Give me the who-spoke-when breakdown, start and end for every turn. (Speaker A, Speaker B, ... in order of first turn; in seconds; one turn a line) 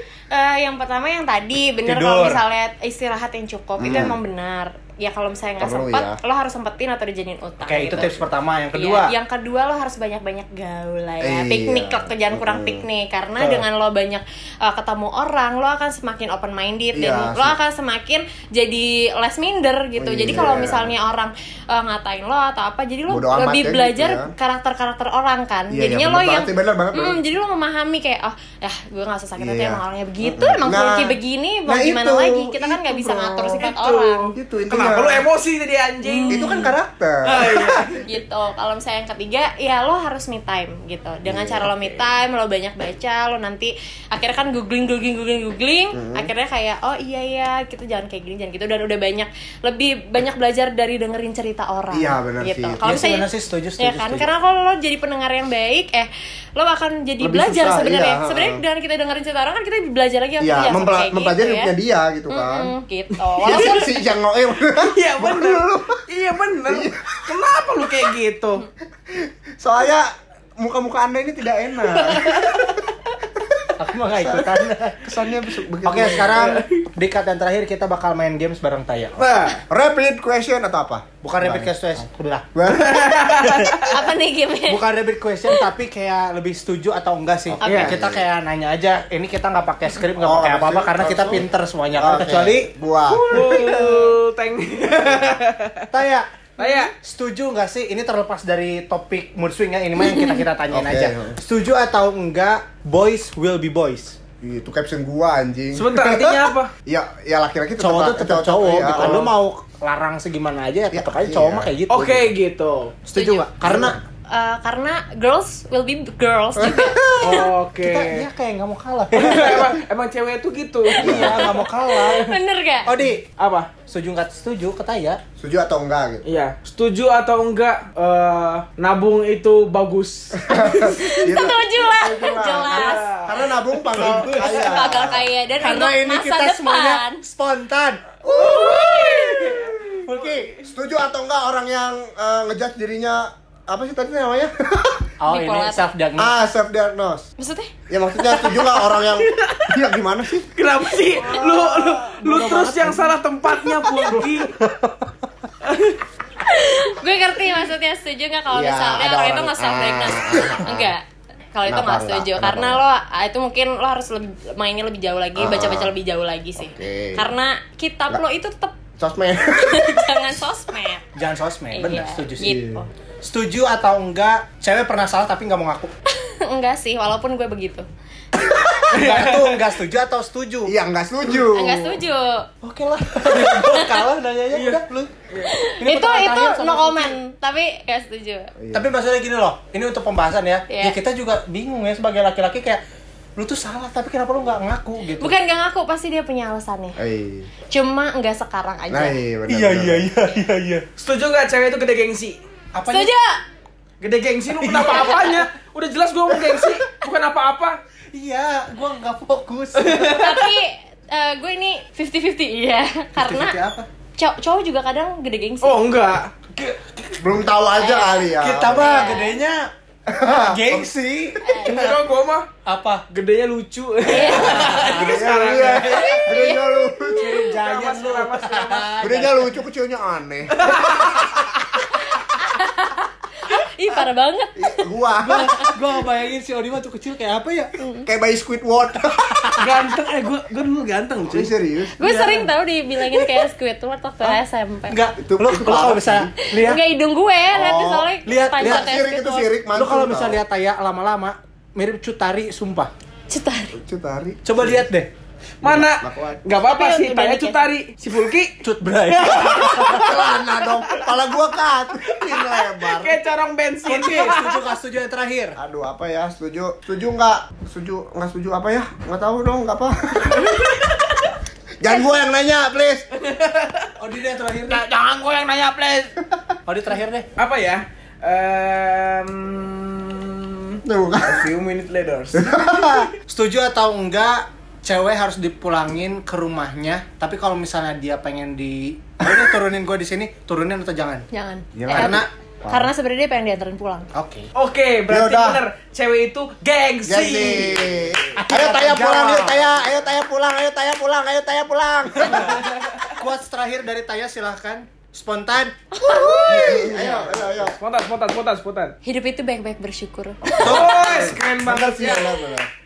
Speaker A: 0.3-34.2
Speaker B: 1.8-2.4
Speaker C: 3.8-4.2
Speaker C: 5.6-6.2
Speaker B: 7.6-9.1
Speaker C: 11.2-12.8
Speaker B: 13.4-13.7
Speaker C: 16.9-17.6
Speaker C: 20.0-20.9
Speaker C: 23.1-24.3
Speaker C: 25.7-27.2
Speaker C: 29.4-33.7
Speaker D: 33.6-36.7
Speaker C: 34.3-35.2
Speaker A: 36.0-36.7
Speaker C: 36.3-38.0
Speaker D: 37.2-38.0
Speaker A: 38.0-61.7
Speaker C: 41.3-41.7
Speaker C: 45.9-46.3
Speaker C: 51.9-52.8
Speaker B: 52.8-54.3
Speaker C: 57.2-58.6
Speaker C: 60.4-62.7
Speaker A: 62.3-63.9
Speaker D: 63.3-63.8
Speaker C: 63.4-65.9
Speaker D: 64.7-68.7
Speaker C: 66.7-67.0
Speaker C: 69.1-72.8
Speaker D: 71.8-72.8
Speaker C: 73.4-74.5
Speaker B: 73.8-75.3
Speaker C: 75.0-76.5
Speaker B: 75.8-79.2
Speaker D: 76.3-76.8
Speaker D: 79.2-79.6
Speaker C: 79.7-81.7
Speaker B: 81.2-82.5
Speaker C: 82.5-83.4
Speaker D: 82.7-84.0
Speaker B: 83.4-83.9
Speaker A: 83.8-84.8
Speaker B: 84.7-92.7
Speaker C: 87.5-88.2
Speaker A: 87.6-87.9
Speaker D: 87.6-88.0
Speaker C: 90.2-91.4
Speaker C: 92.0-93.9
Speaker D: 93.1-95.9
Speaker B: 95.9-96.3
Speaker D: 96.6-96.9
Speaker A: 96.6-96.9
Speaker B: 96.9-104.2
Speaker A: 100.1-100.4
Speaker C: 100.7-101.4
Speaker C: 104.4-109.3
Speaker D: 105.7-106.7
Speaker B: 107.8-112.3
Speaker C: 110.9-111.7
Speaker D: 111.9-113.0
Speaker B: 113.0-114.0
Speaker A: 113.1-117.5
Speaker C: 113.6-113.9
Speaker C: 116.6-117.4
Speaker D: 117.2-118.3
Speaker B: 117.8-119.7
Speaker D: 119.1-121.3
Speaker A: 121.0-122.9
Speaker B: 121.0-122.3
Speaker C: 121.0-121.4
Speaker B: 122.8-123.2
Speaker D: 123.4-123.7
Speaker B: 123.9-125.2
Speaker C: 125.4-126.2
Speaker D: 126.2-131.0
Speaker C: 130.4-135.2
Speaker A: 130.8-133.1
Speaker D: 132.6-134.2
Speaker B: 133.9-135.0
Speaker A: 134.3-137.2
Speaker B: 135.6-138.0
Speaker C: 138.2-139.6
Speaker D: 138.3-140.6
Speaker A: 138.3-139.6
Speaker B: 140.0-140.5
Speaker C: 140.6-145.0
Speaker B: 145.2-146.3
Speaker A: 145.3-145.9
Speaker C: 146.2-147.3
Speaker A: 147.4-147.7
Speaker C: 147.9-150.5
Speaker D: 148.3-149.8
Speaker D: 150.5-154.6
Speaker A: 151.3-152.1
Speaker B: 152.2-153.1
Speaker B: 154.1-155.1
Speaker D: 155.6-156.0
Speaker A: 156.4-168.8
Speaker C: 158.5-160.9
Speaker C: 161.6-162.8
Speaker C: 165.4-165.9
Speaker C: 166.6-167.3
Speaker C: 169.0-170.2
Speaker A: 169.6-171.0
Speaker B: 171.1-172.6
Speaker A: 171.7-172.9
Speaker C: 172.4-172.8
Speaker B: 173.2-175.9
Speaker A: 176.1-177.8
Speaker B: 178.7-180.7
Speaker D: 178.8-179.6
Speaker C: 180.7-182.0
Speaker A: 181.3-182.5
Speaker B: 182.6-187.2
Speaker A: 183.6-184.0
Speaker D: 184.5-185.5
Speaker A: 185.4-188.5
Speaker C: 188.6-188.9
Speaker B: 188.7-192.8
Speaker A: 190.7-191.0
Speaker B: 193.3-195.3
Speaker A: 195.2-197.0
Speaker C: 197.0-197.5
Speaker A: 197.7-199.2
Speaker C: 198.9-200.0
Speaker B: 199.5-200.8
Speaker D: 201.0-202.4
Speaker B: 202.7-203.1
Speaker A: 202.9-203.4
Speaker D: 204.0-207.8
Speaker B: 204.6-205.5
Speaker B: 206.3-206.6
Speaker B: 208.1-210.4
Speaker D: 209.8-210.4
Speaker A: 210.1-213.6
Speaker B: 213.2-213.9
Speaker A: 214.2-215.8
Speaker D: 215.6-217.2
Speaker C: 217.2-219.0
Speaker A: 217.8-219.4
Speaker B: 218.4-219.7
Speaker C: 220.1-220.8
Speaker B: 220.2-222.0
Speaker A: 221.4-221.9
Speaker D: 221.6-222.5
Speaker B: 222.6-223.0
Speaker D: 223.1-226.2
Speaker A: 224.0-224.8
Speaker B: 224.1-225.3
Speaker C: 224.6-227.4
Speaker A: 226.0-227.1
Speaker B: 227.1-229.5
Speaker D: 227.4-229.0
Speaker C: 229.0-230.9
Speaker D: 230.6-231.8
Speaker A: 232.1-235.8
Speaker C: 234.6-235.5
Speaker B: 235.2-237.8
Speaker A: 237.8-238.1
Speaker C: 238.0-239.5
Speaker B: 239.3-240.0
Speaker D: 239.6-241.5
Speaker C: 241.3-241.9
Speaker A: 242.0-245.0
Speaker B: 242.0-242.5
Speaker B: 243.0-243.3
Speaker B: 244.2-246.8
Speaker C: 245.2-246.3
Speaker A: 246.5-249.5
Speaker C: 247.5-250.4
Speaker B: 248.2-249.0
Speaker B: 249.7-252.9
Speaker A: 253.3-253.8
Speaker C: 253.8-254.8
Speaker B: 254.4-255.1
Speaker D: 255.6-261.1
Speaker C: 255.8-256.4
Speaker A: 256.6-257.6
Speaker B: 258.6-260.1
Speaker C: 259.9-263.2
Speaker D: 262.0-264.7
Speaker B: 263.9-265.6
Speaker C: 265.6-270.8
Speaker D: 270.3-271.3
Speaker C: 271.8-273.0
Speaker D: 273.1-273.9
Speaker B: 274.0-274.8
Speaker D: 274.7-276.2
Speaker B: 276.7-277.2
Speaker D: 277.4-283.0
Speaker C: 280.8-281.5
Speaker C: 282.3-283.1
Speaker B: 283.3-291.2
Speaker A: 291.3-294.1
Speaker C: 291.7-292.9
Speaker B: 291.9-292.3
Speaker B: 294.1-294.5
Speaker D: 294.5-298.2
Speaker C: 295.1-295.6
Speaker C: 297.1-302.7
Speaker B: 298.4-299.9
Speaker B: 302.2-302.6
Speaker D: 302.3-303.1
Speaker B: 303.1-305.7
Speaker A: 305.9-307.0
Speaker C: 306.1-307.8
Speaker B: 306.6-307.4
Speaker D: 307.1-308.9
Speaker A: 309.0-310.8
Speaker C: 310.5-312.7
Speaker D: 310.6-312.4
Speaker B: 310.6-310.9